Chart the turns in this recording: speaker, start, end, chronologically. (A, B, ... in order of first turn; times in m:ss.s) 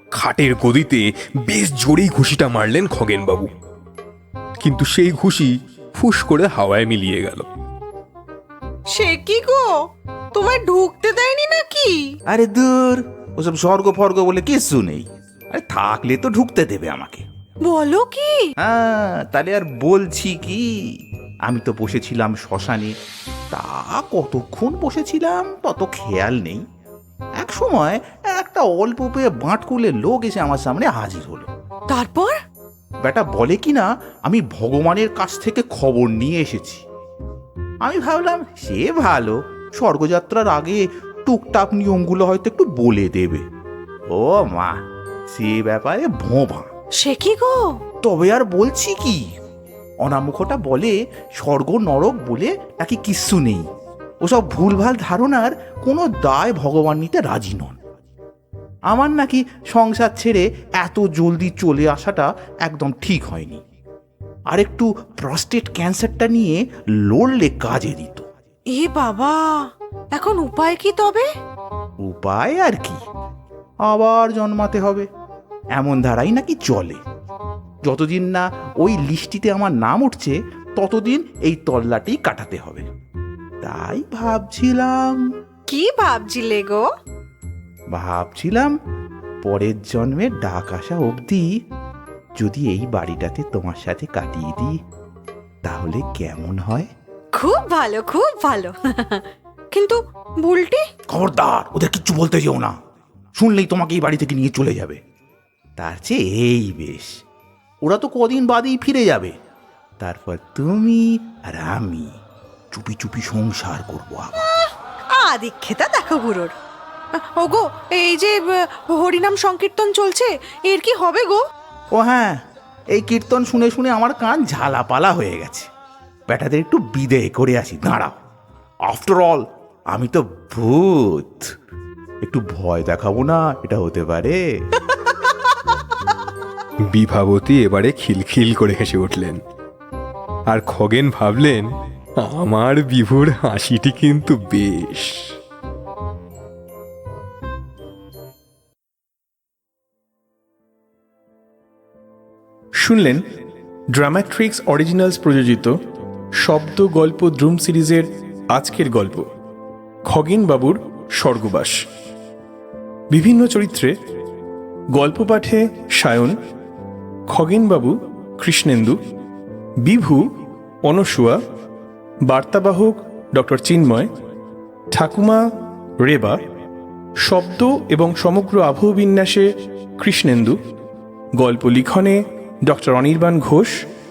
0:00.2-0:03.5 A
0:04.6-0:07.5 A
0:08.9-0:09.6 B
0:10.3-0:12.0 B
0:12.3-0:17.2 C
0:17.6-0:18.4 B
0:18.6-0:20.6 C
0:21.5-0:22.9 C
0:23.5-0:26.6 C
0:27.4-0:31.5 C
0:31.9-0:32.4 B
0:33.0-0:36.8 C
0:37.8-0:43.4 C
0:44.1-0:44.8 C
0:45.3-0:46.7 C
0:47.0-0:47.6 B
0:48.0-0:49.2 C
0:50.0-0:53.6 C
0:54.2-0:57.8 C
0:58.9-1:03.6 C
1:04.5-1:06.6 C
1:07.1-1:08.2 C
1:08.7-1:11.3 B
1:12.0-1:13.0 C
1:13.9-1:15.1 C
1:15.8-1:17.0 C
1:17.8-1:22.9 C
1:23.6-1:25.2 C
1:25.7-1:26.9 B
1:27.9-1:28.7 C
1:29.4-1:31.5 C
1:32.4-1:34.8 C
1:35.6-1:36.9 C
1:37.3-1:40.8 B
1:41.1-1:42.7 C
1:43.4-1:45.0 C
1:45.8-1:47.1 C
1:47.8-1:49.3 C
1:50.0-1:52.1 C
1:52.7-1:54.5 C
1:55.2-1:56.5 B
1:57.4-2:01.4 B
2:01.9-2:02.4 C
2:02.9-2:05.7 C
2:06.3-2:08.2 C
2:08.9-2:11.4 C
2:12.2-2:14.4 C
2:16.9-2:19.4 A
2:20.5-2:21.7 A
2:22.2-2:25.1 A
2:32.8-2:33.3 D
2:33.9-2:35.8 D
2:36.4-2:39.3 D
2:40.1-2:41.8 D
2:43.1-2:44.0 D
2:44.9-2:46.4 D
2:47.3-2:49.0 D
2:49.8-2:50.3 D
2:50.8-2:51.4 D
2:52.3-2:54.1 D
2:54.9-2:55.4 D
2:56.0-2:56.4 D
2:57.2-3:00.6 D
3:01.4-3:03.8 D